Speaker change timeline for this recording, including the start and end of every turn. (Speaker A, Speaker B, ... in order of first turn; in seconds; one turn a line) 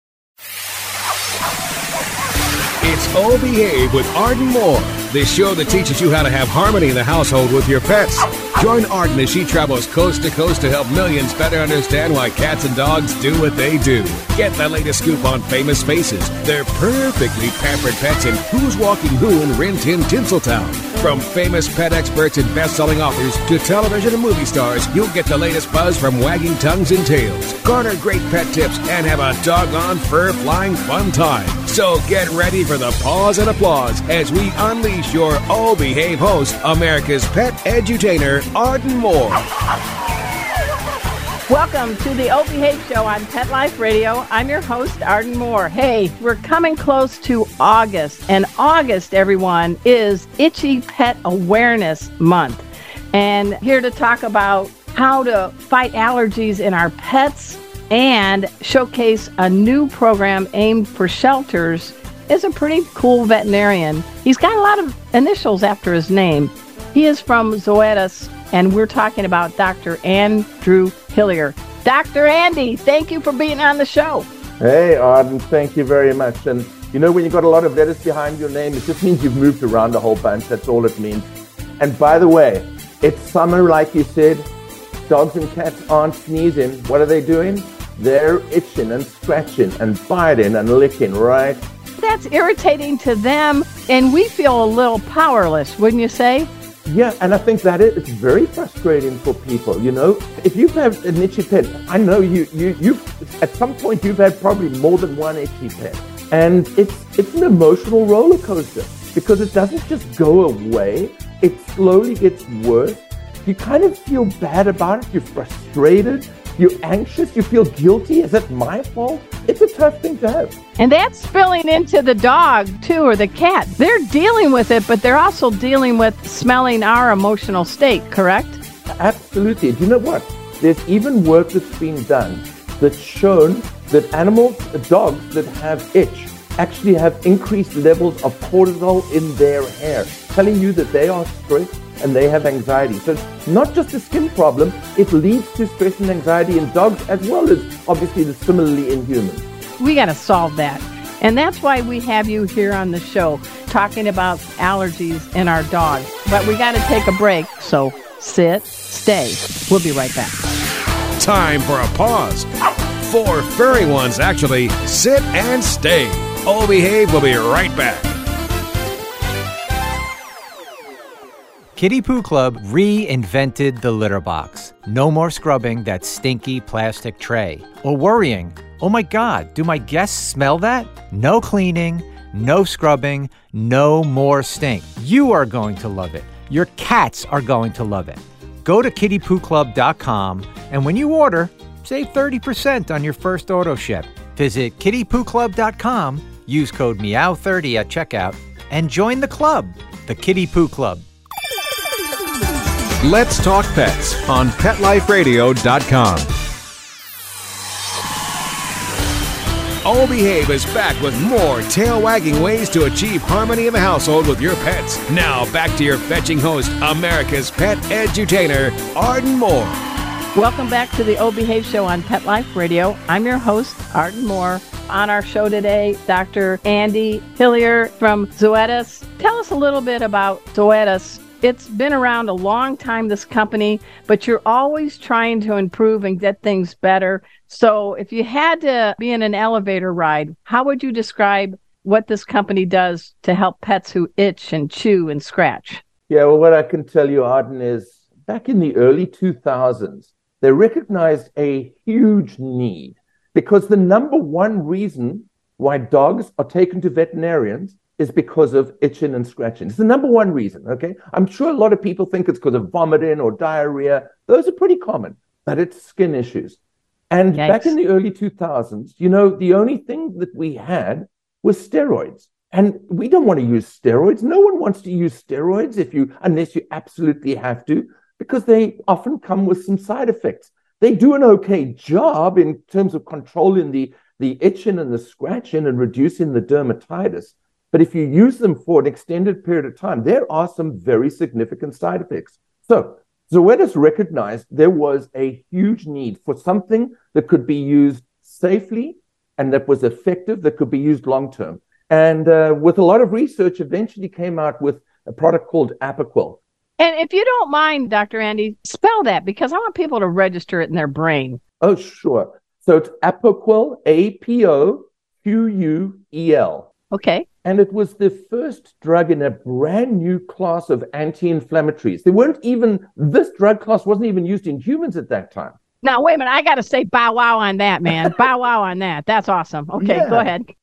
Speaker A: 2.8-39.4
Speaker B: 41.5-74.3
Speaker C: 74.6-81.3
Speaker C: 81.8-84.5
Speaker C: 85.1-91.6
Speaker B: 92.0-96.5
Speaker C: 96.8-120.5
Speaker B: 120.8-128.6
Speaker C: 129.0-149.4
Speaker B: 149.8-160.3
Speaker A: 161.2-162.5
Speaker A: 163.0-168.2
Speaker D: 171.8-201.0
Speaker A: 203.0-206.3
Speaker A: 209.8-219.8
Speaker B: 220.3-245.8
Speaker C: 246.1-266.6
Speaker C: 267.1-306.4
Speaker B: 267.4-267.7
Speaker B: 306.8-311.4
Speaker C: 311.6-316.7
Speaker B: 316.9-317.2
Speaker C: 317.4-325.5
Speaker B: 325.8-330.5
Speaker C: 329.7-330.3